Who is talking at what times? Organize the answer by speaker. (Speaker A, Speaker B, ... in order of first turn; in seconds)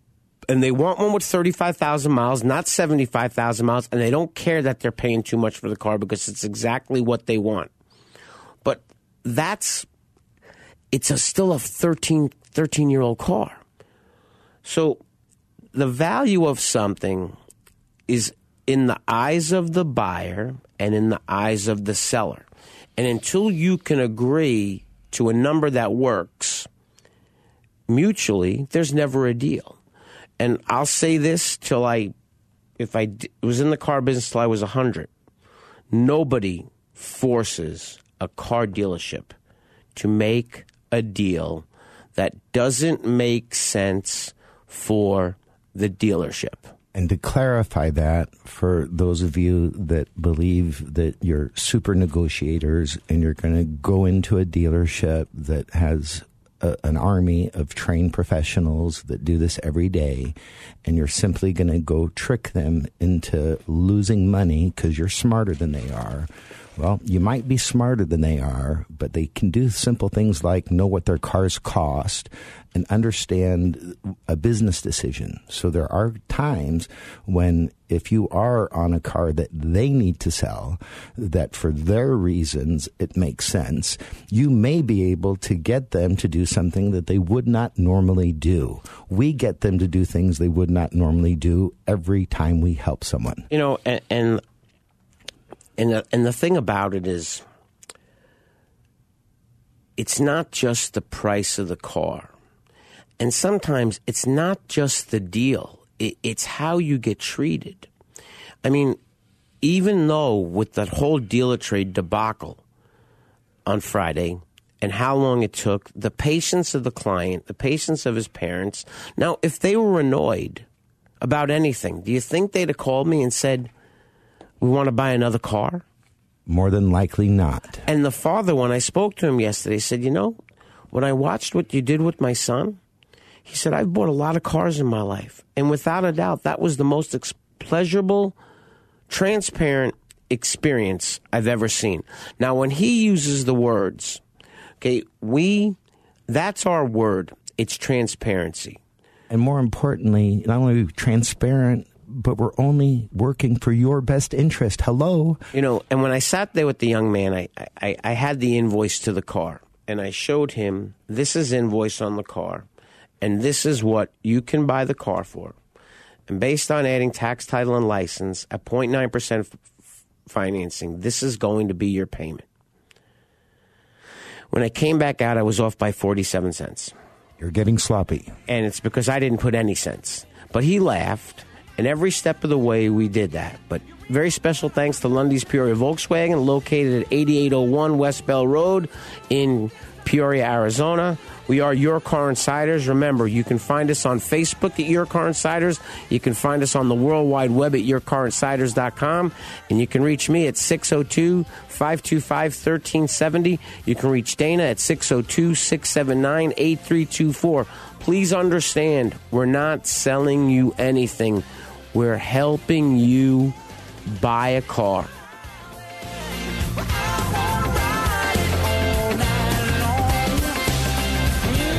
Speaker A: 0.5-7.7, 8.6-9.9, 10.9-13.6, 14.6-15.0, 15.7-17.4, 18.1-22.4, 23.0-26.7, 27.9-29.8, 30.4-32.1, 32.8-35.1, 35.9-39.3, 39.9-46.7, 93.5-94.4, 95.8-97.4, 100.0-102.3, 103.2-107.9, 108.6-109.0, 109.6-112.6, 113.7-120.7, 121.2-123.7, 124.6-125.8, 127.8-130.4, 130.9-132.8, 133.4-138.3, 139.1-144.2, 144.8-145.8, 146.3-148.8, 155.5-162.7, 163.2-165.6, 166.3-169.6, 170.2-172.4, 174.5-176.9, 178.5-213.6, 214.1-215.1
Speaker B: 46.9-93.5, 126.5-127.8, 149.3-155.4, 177.4-178.3